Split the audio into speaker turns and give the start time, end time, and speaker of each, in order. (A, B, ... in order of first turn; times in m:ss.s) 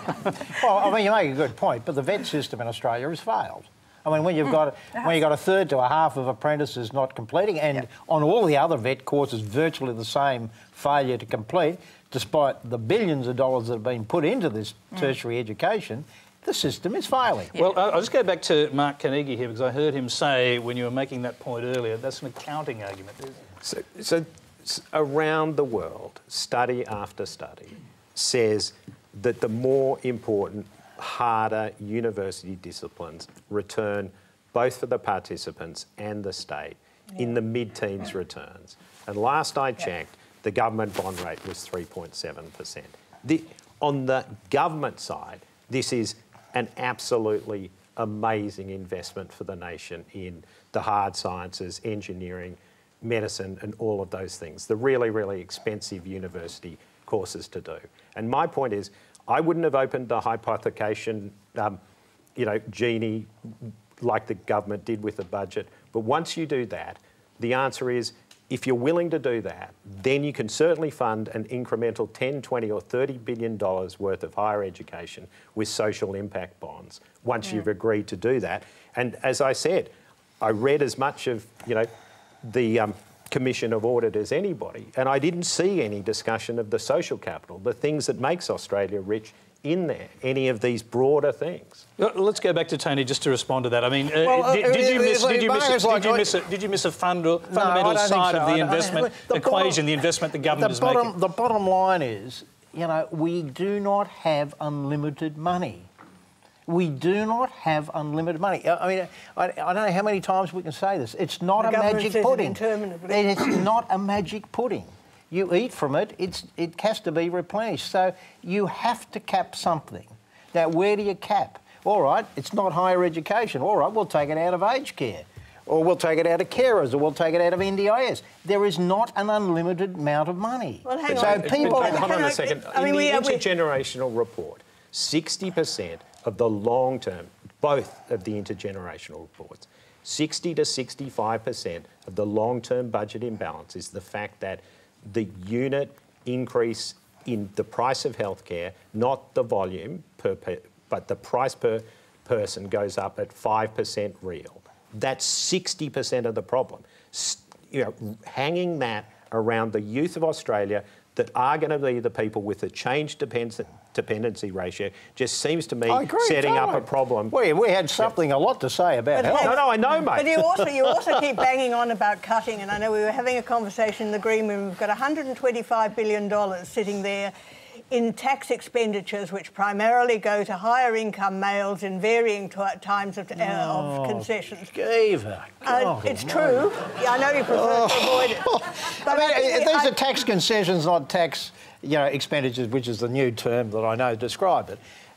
0:00.5-0:17.5 A
0:17.6-0:23.4 B
0:23.6-1:01.8 C
1:02.4-1:21.9 C
1:22.4-1:31.9 C
1:32.0-1:41.1 B
1:34.2-1:36.4 A
1:37.5-1:45.9 A
1:46.7-2:12.1 A
1:51.6-1:53.5 D
2:10.8-2:13.4 D
2:11.1-2:47.4 C
2:45.9-2:49.6 A
2:49.1-2:57.3 D
2:49.2-2:50.9 C
2:57.9-3:04.7 D
3:03.4-3:06.7 A
3:05.6-3:10.0 D
3:07.5-3:14.8 A